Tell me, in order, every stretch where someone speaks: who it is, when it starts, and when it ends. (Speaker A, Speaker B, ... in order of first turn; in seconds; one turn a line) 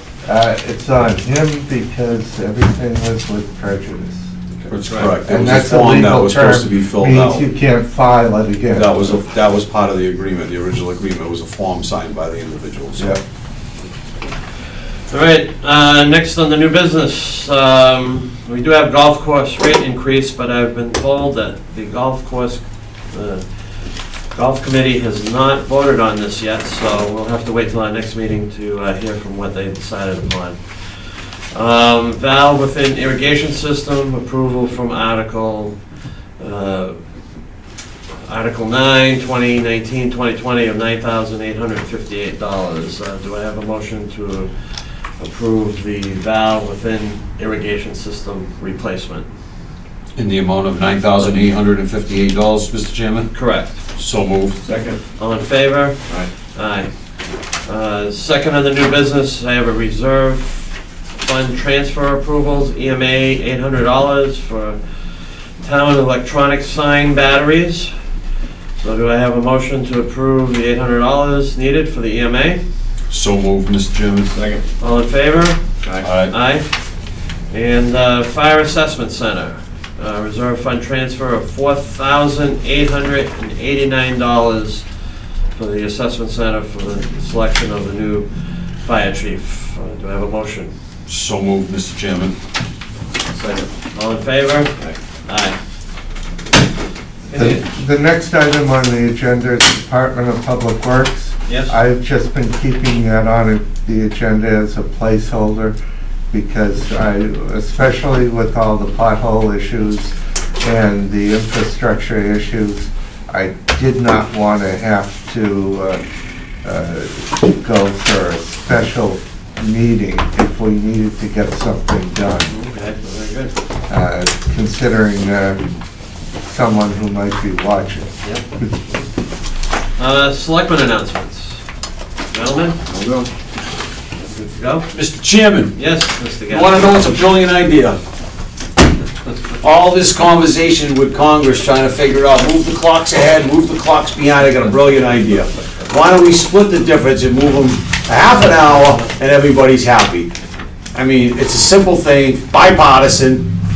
Speaker A: 0.2-4.3
Speaker B: 4.7-7.4
Speaker C: 4.8-5.2
Speaker A: 5.2-9.0
Speaker B: 8.7-13.1
Speaker C: 15.1-35.8
Speaker C: 36.4-37.0
Speaker C: 38.2-49.3
Speaker B: 50.2-53.3
Speaker C: 53.3-53.8
Speaker B: 53.9-54.6
Speaker D: 54.6-55.0
Speaker C: 55.2-56.0
Speaker C: 56.5-56.9
Speaker C: 57.6-68.0
Speaker C: 68.8-72.6
Speaker B: 73.1-74.3
Speaker D: 74.3-74.6
Speaker C: 74.8-75.7
Speaker D: 75.8-76.1
Speaker B: 76.0-76.3
Speaker C: 76.3-76.8
Speaker C: 77.5-84.9
Speaker C: 85.5-90.7
Speaker B: 91.1-92.3
Speaker D: 93.3-93.7
Speaker C: 93.9-95.6
Speaker C: 97.3-97.7
Speaker A: 97.3-105.8
Speaker C: 101.5-101.7
Speaker A: 106.3-116.0
Speaker A: 116.6-122.5
Speaker C: 122.5-123.5
Speaker A: 123.9-125.6
Speaker A: 126.4-128.8
Speaker C: 130.0-131.6
Speaker C: 132.3-132.8
Speaker D: 132.9-133.3
Speaker C: 134.2-134.9
Speaker B: 134.9-135.8
Speaker C: 135.7-137.2
Speaker B: 136.5-138.0
Speaker B: 139.6-150.3
Speaker B: 150.9-153.5